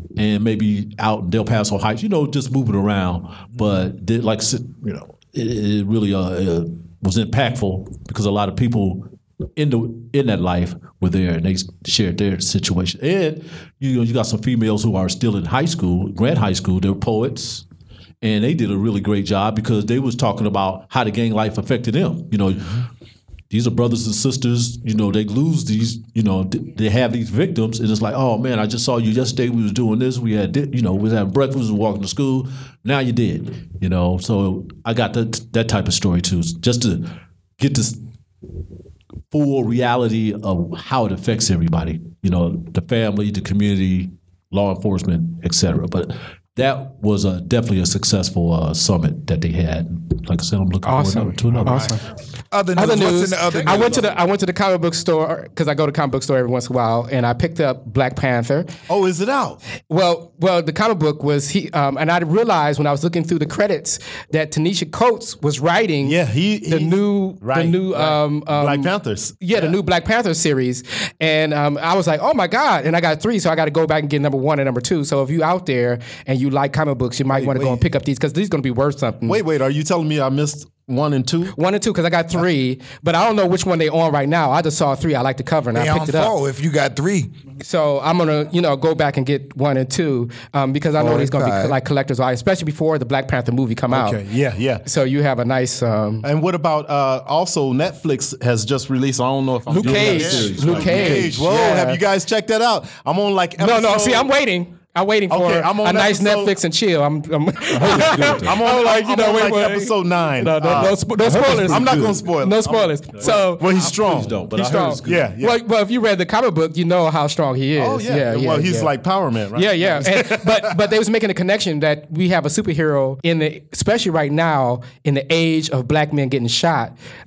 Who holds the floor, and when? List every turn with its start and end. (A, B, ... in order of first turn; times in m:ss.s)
0:00.2-0:17.6 A
0:18.2-0:22.8 A
0:23.5-0:38.0 A
0:39.3-0:52.0 A
0:50.8-0:52.0 B
0:51.6-0:51.9 C
0:52.5-0:54.1 D
0:52.7-0:58.7 B
0:53.7-0:54.1 A
0:58.9-0:59.6 C
0:59.9-1:19.4 B
1:06.0-1:09.8 C
1:17.3-1:17.9 C
1:19.2-1:21.6 C
1:21.5-1:26.3 B
1:25.7-1:27.3 D
1:27.6-1:34.2 B
1:31.0-1:31.8 D
1:33.9-1:34.8 C
1:34.8-1:36.2 B
1:36.2-1:44.3 C
1:39.7-1:42.0 B
1:39.7-1:41.4 A
1:43.6-1:53.9 B
1:45.3-1:46.5 C
1:47.7-1:48.6 A
1:47.7-1:54.4 C
1:51.2-1:52.2 A
1:53.2-1:55.3 A
1:54.5-1:58.9 B
1:55.0-1:55.6 C
1:57.8-2:00.8 C
1:59.5-2:07.0 B